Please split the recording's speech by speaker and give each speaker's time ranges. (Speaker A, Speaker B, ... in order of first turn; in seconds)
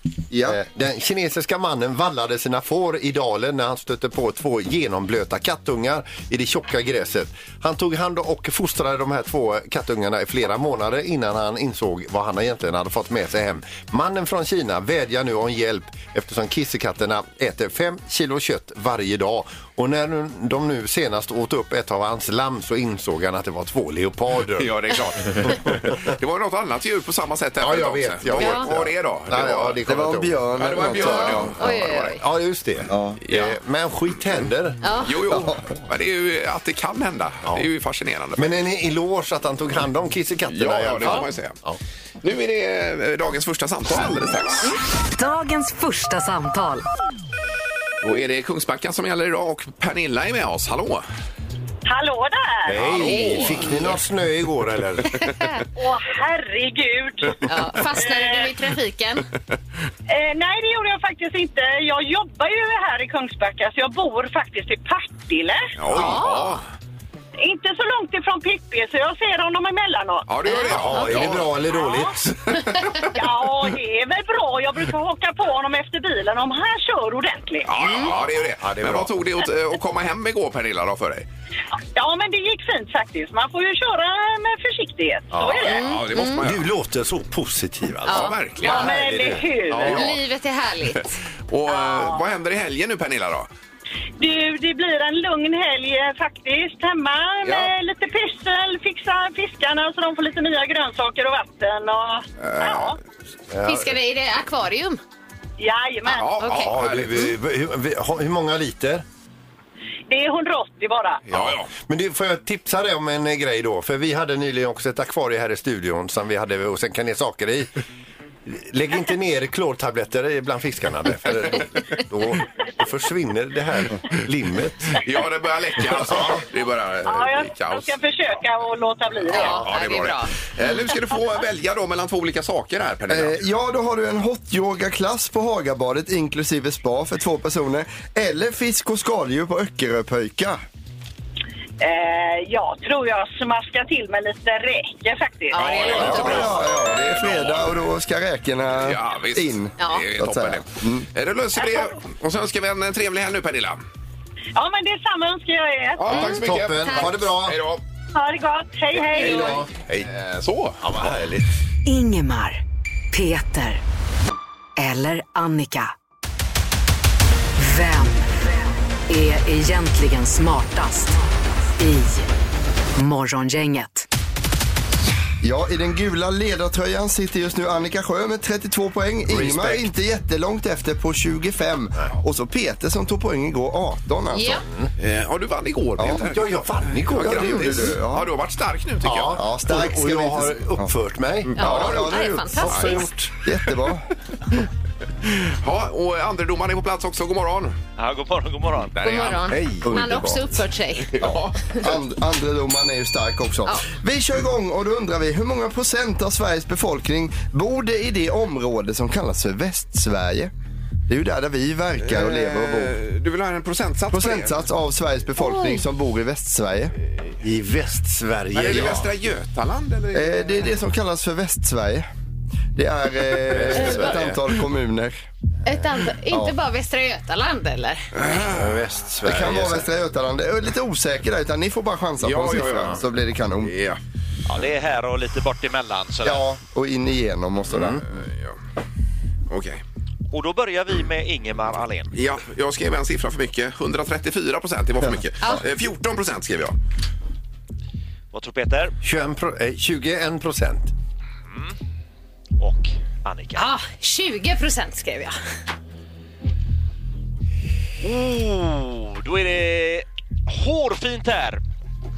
Speaker A: 0.3-0.6, 29.9-31.6, 32.9-33.2, 35.3-35.7, 133.1-140.6, 145.9-151.1, 175.4-184.6, 187.1-188.3, 189.3-190.9, 191.5-194.1, 199.8-200.6, 201.2-210.5, 211.1-213.0, 214.1-216.9, 220.1-222.1, 222.8-225.2, 229.2-233.7, 236.2-238.0
Speaker B: 0.4-24.7, 25.4-26.1, 27.6-34.8, 38.4-41.8, 52.7-55.3, 70.7-72.6, 78.0-79.3, 85.3-85.8, 86.3-90.2, 103.5-104.0, 106.6-109.0, 111.3-117.7, 118.5-125.0, 125.9-126.4, 156.1-157.6, 159.1-160.1, 160.8-161.5, 179.3-179.9, 184.5-184.9, 186.1-188.0, 189.0-193.3, 199.5-200.3, 217.4-219.1, 223.5-224.2, 228.3-229.9, 237.7-238.0, 249.0-250.9
Speaker C: 24.6-29.8, 30.6-32.2, 33.2-33.6, 35.0-38.5, 40.5-41.6, 42.2-44.8, 48.0-51.0, 52.8-53.8, 65.8-66.7, 70.3-71.5, 72.5-72.9, 77.7-81.3, 85.6-86.7, 88.1-88.9, 89.8-90.1, 91.5-93.5, 97.4-97.7, 102.4-103.0, 106.1-107.3, 111.3-111.7, 125.0-128.0, 129.3-133.4, 145.5-147.8, 148.8-153.8, 156.0-157.8, 159.1-161.3, 185.0-189.4, 191.5-193.0, 195.3-197.8, 199.0-199.7, 201.1-202.0, 212.0-214.7, 218.5-220.8, 223.5-224.4, 228.1-228.8, 232.2-233.0, 233.6-234.0, 238.1-238.6, 239.5-239.8, 242.1-246.8
Speaker D: 28.4-28.7, 31.0-32.2, 34.8-35.1, 55.1-55.6, 57.5-59.2, 65.9-66.6, 70.5-71.2, 77.8-78.1, 85.7-86.4, 88.1-89.0, 89.8-91.1, 103.7-105.0, 106.4-106.7, 129.3-130.3, 145.5-146.5, 149.8-150.1, 156.1-157.1, 184.3-184.6, 191.6-193.1, 199.0-201.1, 215.4-215.8, 225.7-228.1, 253.6-255.3
Speaker E: 45.1-46.9, 161.9-163.8, 164.8-165.9, 167.6-168.6, 169.1-171.2, 171.8-172.3, 173.0-174.1
Speaker F: 51.9-52.8, 55.8-58.5, 60.1-65.7, 67.4-70.3, 71.8-72.1, 73.1-77.7, 81.9-85.9, 88.7-90.0, 91.7-92.2, 94.2-103.0, 105.6-106.4, 110.1-111.2, 127.0-129.7, 141.8-145.8, 154.6-156.1, 158.1-159.6
Speaker G: 198.0-199.0, 234.5-236.4, 240.3-242.1, 248.3-248.9, 251.5-251.8, 252.6-253.6, 258.0-261.6